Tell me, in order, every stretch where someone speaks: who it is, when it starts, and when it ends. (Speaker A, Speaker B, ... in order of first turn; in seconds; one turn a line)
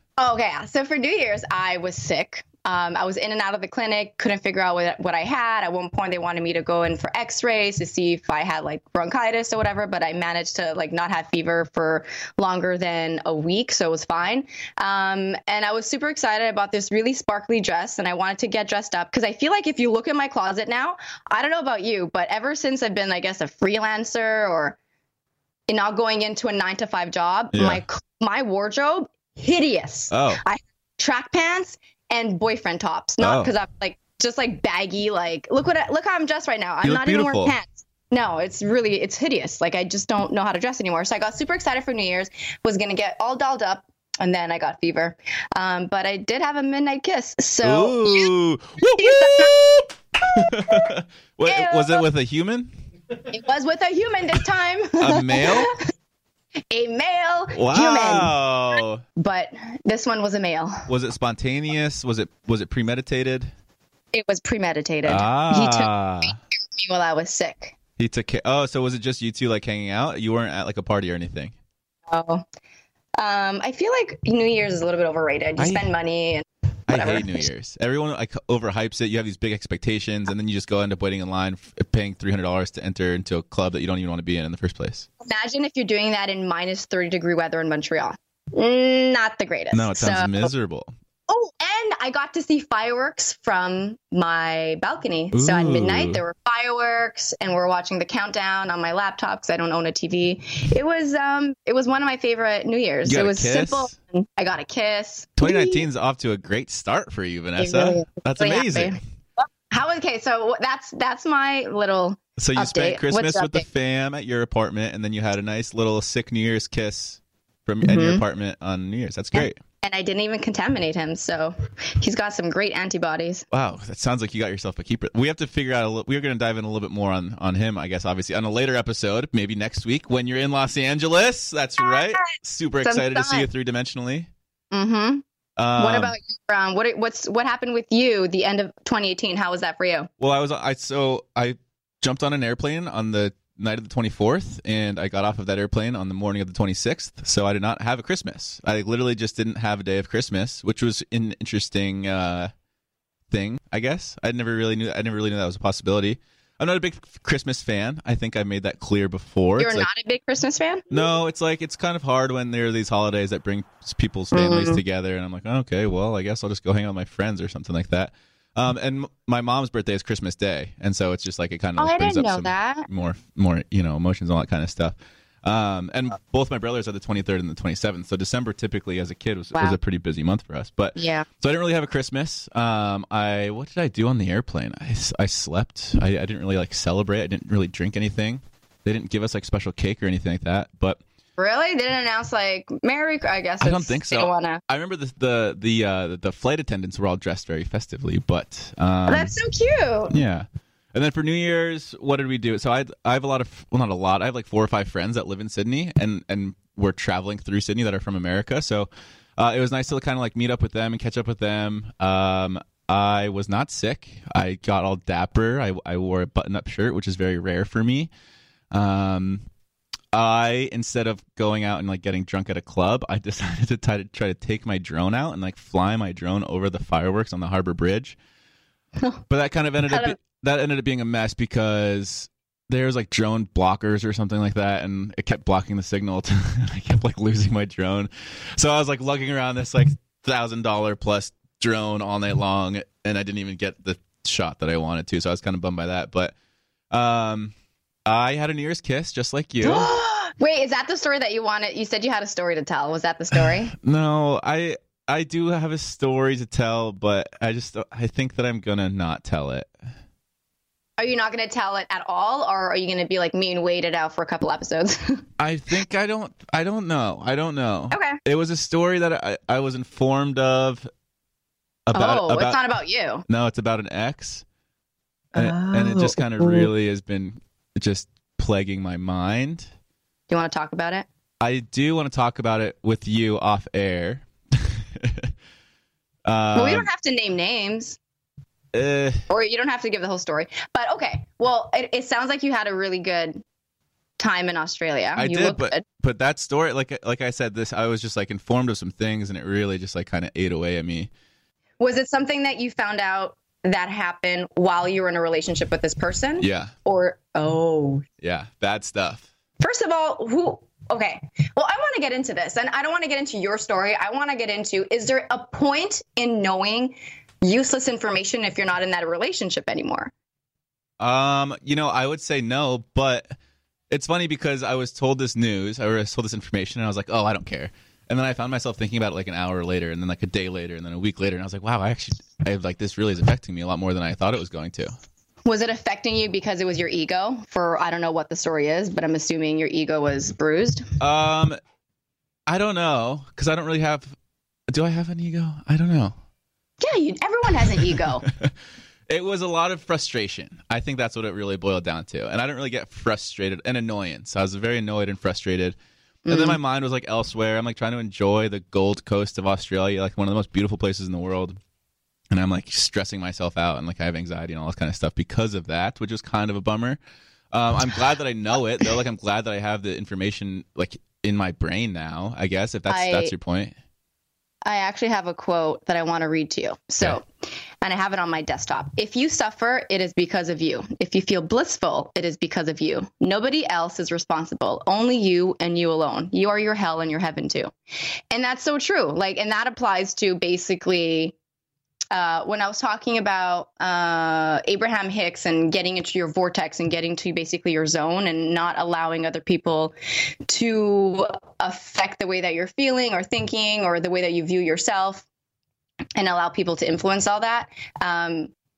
Speaker A: 0.2-24.8
Speaker A: 25.7-48.3
Speaker B: 27.5-27.8
Speaker B: 30.1-30.4
Speaker B: 33.2-33.5
Speaker B: 36.8-37.5
Speaker B: 47.6-52.7
Speaker A: 48.9-50.7
Speaker A: 51.4-52.0
Speaker A: 53.3-55.7
Speaker B: 55.0-55.7
Speaker A: 56.7-58.3
Speaker B: 57.5-59.0
Speaker A: 59.2-60.8
Speaker B: 60.9-63.5
Speaker A: 64.1-67.7
Speaker B: 65.0-66.4
Speaker B: 68.0-71.5
Speaker A: 72.1-72.4
Speaker A: 73.2-77.3
Speaker B: 76.9-85.0
Speaker A: 85.2-90.5
Speaker B: 89.7-90.9
Speaker A: 91.3-105.8
Speaker B: 95.3-96.2
Speaker B: 103.0-103.9
Speaker B: 105.4-109.0
Speaker A: 107.6-109.0
Speaker A: 109.7-113.6
Speaker B: 112.4-119.6
Speaker A: 117.8-118.2
Speaker A: 119.3-123.4
Speaker B: 123.5-134.3
Speaker A: 131.8-132.3
Speaker A: 132.8-133.5
Speaker A: 134.7-135.2
Speaker B: 135.6-136.1
Speaker A: 135.8-140.1
Speaker B: 140.2-152.5
Speaker B: 153.3-159.9
Speaker A: 159.6-161.0
Speaker B: 160.9-191.0
Speaker A: 164.3-164.8
Speaker A: 171.8-172.8
Speaker A: 181.0-181.2
Speaker A: 191.4-194.6
Speaker B: 193.6-199.3
Speaker A: 199.1-200.1
Speaker B: 200.1-218.1
Speaker B: 218.7-219.4
Speaker B: 220.1-228.2
Speaker B: 229.3-246.3
Speaker A: 229.9-230.1
Speaker B: 246.9-247.5
Speaker B: 248.1-249.9
Speaker A: 249.6-253.7
Speaker B: 253.7-259.7
Speaker A: 261.0-265.2
Speaker B: 265.4-270.9
Speaker A: 267.9-268.2
Speaker B: 271.9-272.6
Speaker A: 271.9-273.2
Speaker B: 273.3-274.4
Speaker B: 275.3-279.7
Speaker A: 275.4-276.7
Speaker A: 280.3-281.1
Speaker B: 281.4-285.3
Speaker B: 286.2-286.9
Speaker A: 286.5-288.0
Speaker B: 288.7-289.2
Speaker A: 289.3-293.4
Speaker A: 294.2-295.8
Speaker B: 295.2-301.1
Speaker A: 301.8-308.0
Speaker B: 306.4-306.7
Speaker B: 308.2-309.2
Speaker A: 309.6-320.1
Speaker B: 321.0-323.3
Speaker B: 323.9-334.9
Speaker A: 335.4-340.9
Speaker B: 341.0-341.6
Speaker B: 342.5-344.1
Speaker B: 344.7-346.1
Speaker A: 346.8-348.2
Speaker B: 348.3-348.5
Speaker B: 349.1-361.6
Speaker A: 356.2-356.6
Speaker B: 362.3-367.0
Speaker B: 367.5-373.7
Speaker A: 372.9-373.3
Speaker A: 374.6-377.2
Speaker A: 377.8-387.7
Speaker A: 388.3-391.3
Speaker A: 392.1-399.9
Speaker A: 400.5-405.2
Speaker A: 406.1-408.5